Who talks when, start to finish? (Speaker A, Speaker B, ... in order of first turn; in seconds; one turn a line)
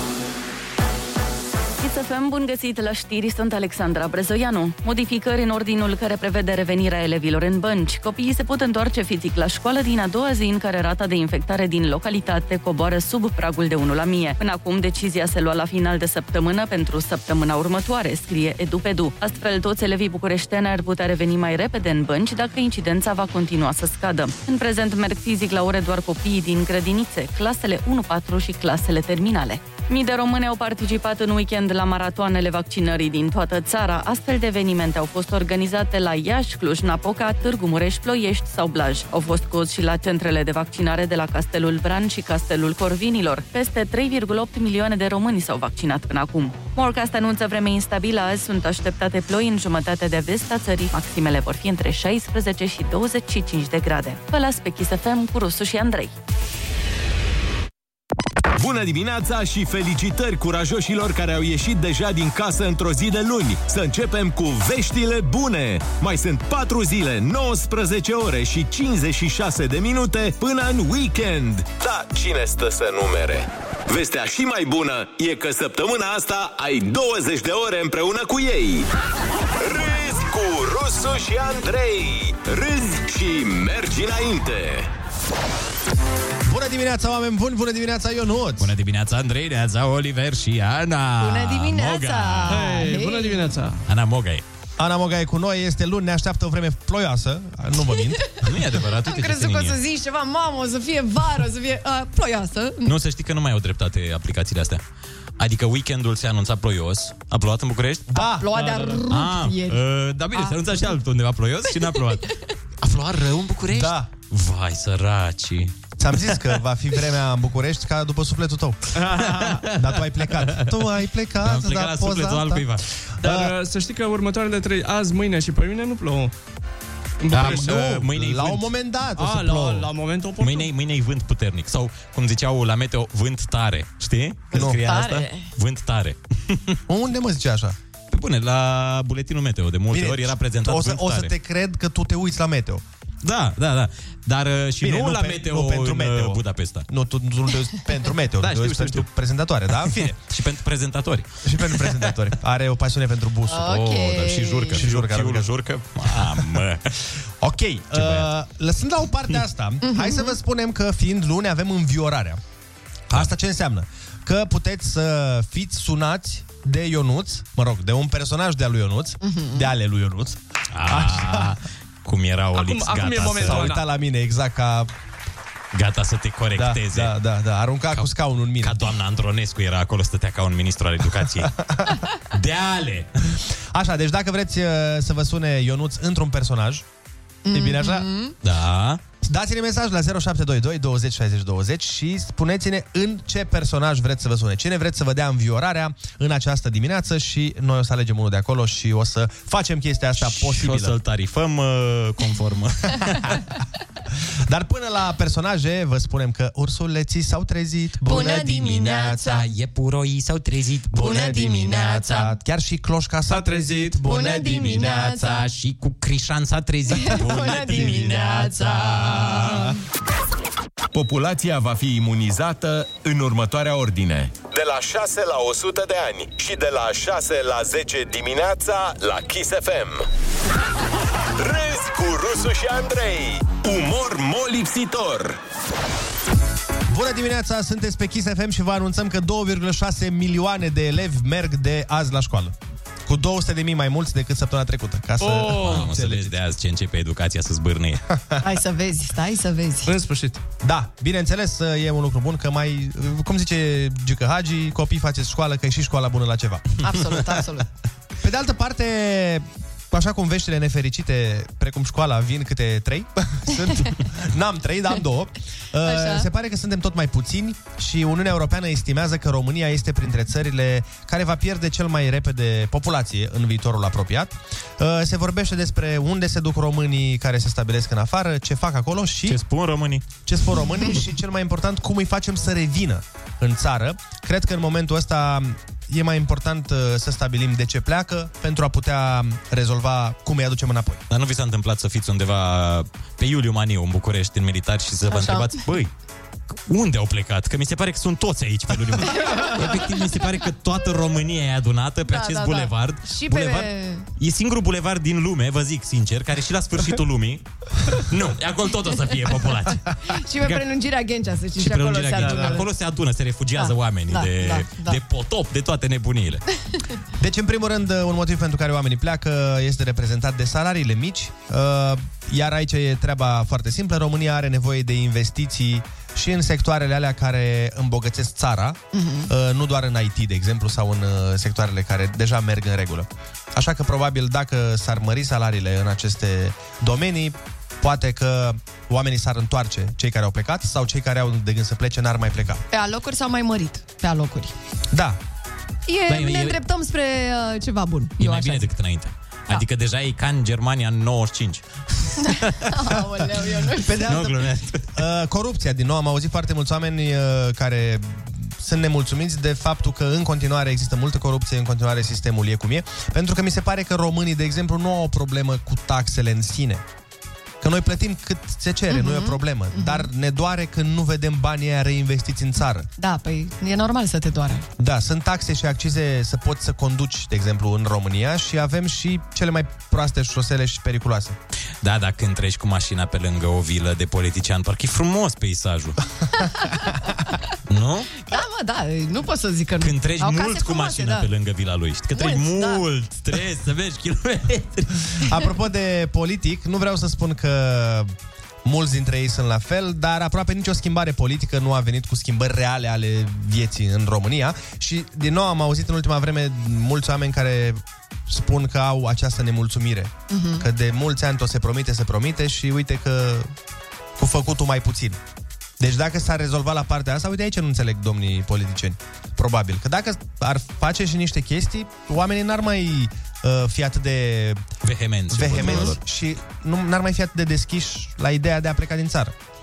Speaker A: 1.8-56.1
Speaker B: 58.6-71.7
Speaker C: 71.7-78.9
Speaker C: 79.6-84.9
Speaker D: 86.5-88.7
Speaker E: 88.6-92.6
Speaker F: 91.2-93.5
Speaker G: 92.5-93.8
Speaker E: 93.9-94.4
Speaker D: 94.8-98.2
Speaker E: 98.4-99.8
Speaker F: 99.0-102.9
Speaker E: 102.9-104.8
Speaker E: 105.4-108.2
Speaker D: 108.1-108.5
Speaker F: 108.3-109.8
Speaker E: 109.0-115.8
Speaker F: 111.8-112.3
Speaker D: 113.7-114.1
Speaker D: 116.0-122.7
Speaker E: 119.3-120.7
Speaker E: 121.4-122.8
Speaker D: 123.2-123.5
Speaker G: 123.2-126.3
Speaker G: 127.2-127.9
Speaker E: 127.3-128.7
Speaker D: 127.3-129.9
Speaker G: 129.2-130.7
Speaker E: 130.4-136.8
Speaker D: 134.5-134.8
Speaker F: 134.6-135.5
Speaker D: 136.9-137.8
Speaker E: 138.1-141.3
Speaker D: 139.9-142.8
Speaker E: 143.2-146.9
Speaker D: 144.8-150.2
Speaker E: 148.4-149.1
Speaker E: 149.8-152.1
Speaker D: 151.4-153.7
Speaker F: 153.5-154.8
Speaker E: 153.6-156.8
Speaker D: 154.7-155.5
Speaker D: 156.0-156.6
Speaker D: 157.4-162.4
Speaker E: 157.9-158.3
Speaker F: 159.8-160.3
Speaker D: 163.1-171.6
Speaker F: 169.2-169.7
Speaker E: 170.7-173.8
Speaker G: 172.6-173.8
Speaker D: 173.3-174.9
Speaker E: 175.7-177.2
Speaker D: 176.6-178.8
Speaker E: 177.9-181.5
Speaker D: 181.7-182.0
Speaker E: 182.3-183.4
Speaker D: 183.7-186.8
Speaker F: 187.5-188.3
Speaker D: 187.5-188.1
Speaker E: 188.4-189.0
Speaker D: 189.2-201.0
Speaker E: 200.2-203.4
Speaker D: 204.5-209.4
Speaker F: 208.1-209.4
Speaker E: 209.2-212.3
Speaker D: 211.0-214.8
Speaker F: 211.0-212.3
Speaker G: 213.3-213.9
Speaker F: 214.0-215.5
Speaker E: 214.3-219.7
Speaker F: 216.9-219.8
Speaker D: 217.4-217.8
Speaker B: 220.9-224.4
Speaker C: 224.5-230.1
Speaker C: 231.4-235.4
Speaker D: 236.9-242.6
Speaker D: 243.1-246.3
Speaker G: 245.2-245.8
Speaker E: 245.6-248.0
Speaker F: 248.4-249.9
Speaker G: 249.8-250.4
Speaker D: 250.6-256.7
Speaker F: 256.8-257.7
Speaker D: 258.2-279.4
Speaker F: 265.8-266.3
Speaker E: 279.3-280.1
Speaker D: 280.3-291.0
Speaker E: 291.1-295.9
Speaker F: 295.1-295.6
Speaker E: 296.7-310.6
Speaker F: 302.1-304.0
Speaker F: 310.1-312.7
Speaker E: 311.6-316.4
Speaker F: 313.6-315.0
Speaker D: 317.2-342.6
Speaker F: 328.9-329.3
Speaker F: 342.7-344.5
Speaker D: 344.9-345.2
Speaker F: 345.9-348.7
Speaker E: 346.1-346.6
Speaker E: 348.2-352.7
Speaker F: 352.2-354.1
Speaker D: 353.8-354.4
Speaker E: 353.9-354.9
Speaker D: 354.9-366.8
Speaker D: 367.6-372.9
Speaker F: 368.9-370.1
Speaker F: 373.0-374.7
Speaker D: 374.8-381.4
Speaker E: 381.8-386.0
Speaker F: 386.4-386.7
Speaker E: 387.7-388.1
Speaker F: 388.3-391.3
Speaker E: 389.8-395.3
Speaker F: 392.1-392.9
Speaker D: 395.3-398.1
Speaker D: 398.6-413.5
Speaker F: 410.3-410.6
Speaker D: 414.2-415.2
Speaker D: 415.8-424.6
Speaker E: 424.8-426.0
Speaker D: 425.3-429.3
Speaker F: 425.6-425.9